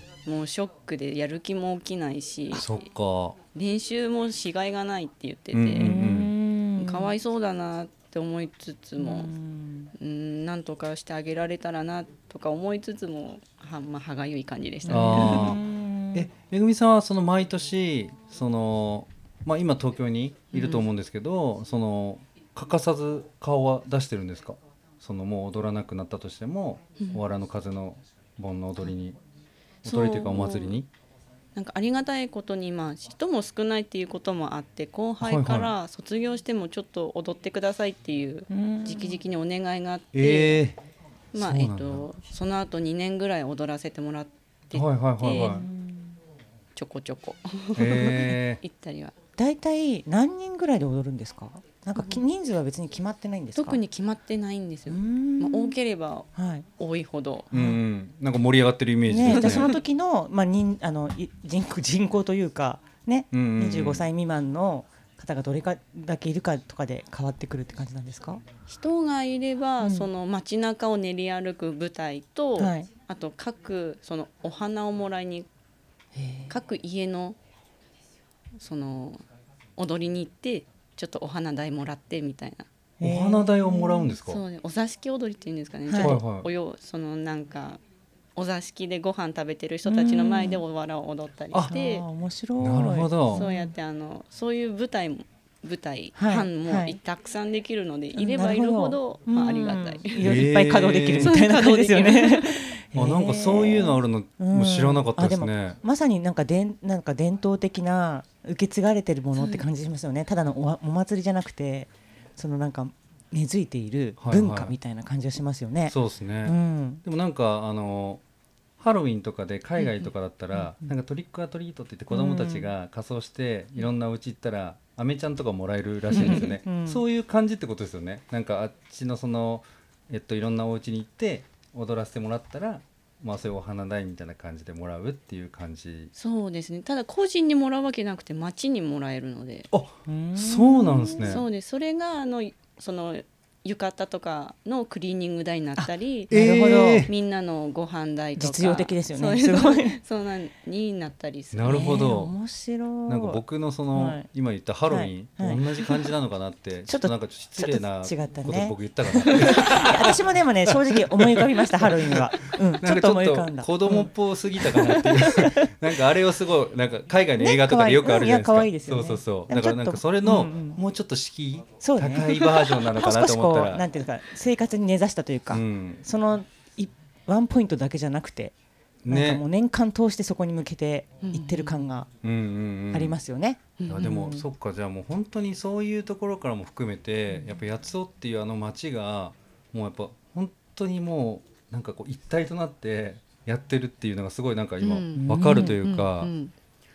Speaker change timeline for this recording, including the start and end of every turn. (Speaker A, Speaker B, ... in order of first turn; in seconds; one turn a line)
Speaker A: 0.2-2.8
Speaker B: 2.5-3.4
Speaker A: 3.5-6.0
Speaker B: 5.5-6.3
Speaker C: 5.8-7.1
Speaker A: 6.8-9.3
Speaker C: 9.0-9.9
Speaker A: 10.0-15.6
Speaker C: 14.8-16.3
Speaker B: 14.9-15.6
Speaker B: 16.1-29.2
Speaker A: 20.5-20.9
Speaker B: 29.8-30.9
Speaker A: 29.9-30.8
Speaker A: 31.6-40.6
Speaker B: 35.2-35.7
Speaker C: 38.5-39.2
Speaker B: 40.1-40.8
Speaker A: 41.3-45.6
Speaker B: 41.4-42.1
Speaker B: 44.7-45.7
Speaker C: 45.3-46.2
Speaker A: 46.8-49.1
Speaker B: 47.8-48.6
Speaker C: 49.4-53.8
Speaker A: 52.0-52.2
Speaker A: 53.6-57.5
Speaker C: 54.9-55.8
Speaker C: 56.4-56.7
Speaker C: 57.5-57.8
Speaker B: 57.5-59.7
Speaker C: 59.1-68.4
Speaker A: 59.3-59.8
Speaker B: 63.3-64.1
Speaker A: 68.7-75.5
Speaker C: 69.8-70.1
Speaker C: 72.6-72.9
Speaker C: 76.2-76.5
Speaker A: 76.5-77.4
Speaker A: 78.6-79.2
Speaker A: 79.8-82.7
Speaker C: 83.0-84.1
Speaker B: 83.0-84.4
Speaker A: 84.3-87.8
Speaker C: 85.9-86.2
Speaker B: 86.0-86.5
Speaker A: 88.4-92.0
Speaker C: 89.9-90.6
Speaker C: 91.7-93.7
Speaker B: 92.6-93.5
Speaker A: 93.3-100.5
Speaker C: 96.2-97.0
Speaker C: 98.2-117.0
Speaker B: 100.2-101.4
Speaker A: 101.2-102.7
Speaker B: 103.0-105.8
Speaker A: 109.3-109.7
Speaker B: 114.2-114.8
Speaker B: 115.9-118.2
Speaker B: 118.8-136.1
Speaker C: 120.6-120.9
Speaker C: 122.1-122.7
Speaker C: 126.1-127.0
Speaker A: 126.2-126.5
Speaker A: 136.2-139.7
Speaker B: 139.7-141.4
Speaker C: 140.1-141.4
Speaker A: 141.2-152.1
Speaker C: 145.8-147.1
Speaker B: 146.3-147.1
Speaker C: 148.4-150.0
Speaker B: 151.5-152.3
Speaker C: 151.7-153.4
Speaker B: 153.1-173.9
Speaker C: 153.9-154.2
Speaker C: 154.9-155.9
Speaker C: 156.9-165.7
Speaker C: 167.4-170.8
Speaker C: 171.8-178.5
Speaker B: 175.5-176.0
Speaker B: 179.0-179.4
Speaker C: 179.1-182.1
Speaker A: 181.2-181.8
Speaker B: 182.2-183.2
Speaker C: 182.9-184.4
Speaker A: 183.8-184.2
Speaker B: 183.9-196.3
Speaker A: 194.8-196.5
Speaker C: 195.2-195.8